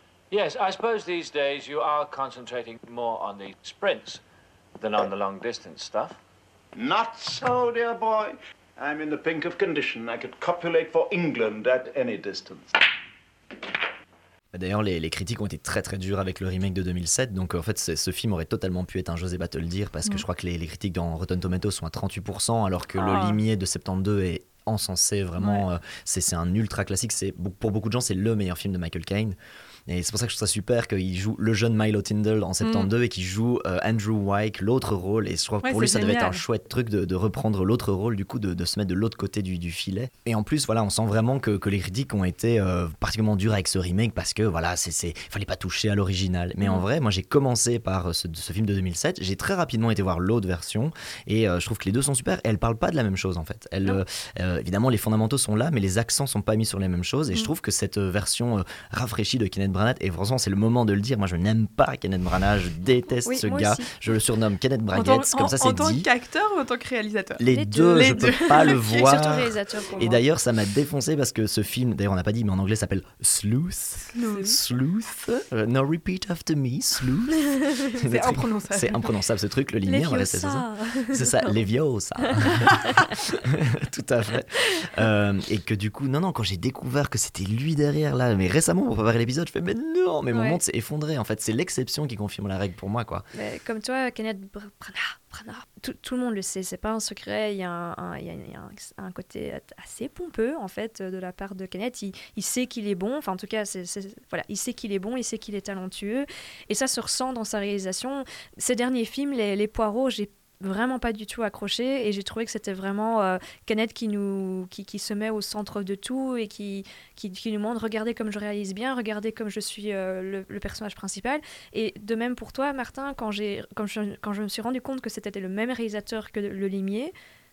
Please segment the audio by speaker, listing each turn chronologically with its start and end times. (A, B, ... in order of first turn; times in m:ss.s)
0:00.3-0:04.2 A
0:04.8-0:06.2 A
0:06.8-0:12.7 B
0:14.5-0:29.4 C
0:23.0-0:23.4 D
0:25.4-0:25.6 D
0:29.9-1:06.1 C
0:32.6-0:32.9 D
0:35.6-0:36.4 D
1:03.3-1:03.9 E
1:04.9-1:09.1 D
1:07.4-1:33.3 C
1:07.5-1:10.2 E
1:14.2-1:14.6 E
1:14.2-1:14.6 D
1:18.0-1:19.1 D
1:19.9-1:21.6 E
1:22.4-1:23.1 E
1:30.3-1:30.6 E
1:33.3-2:07.1 E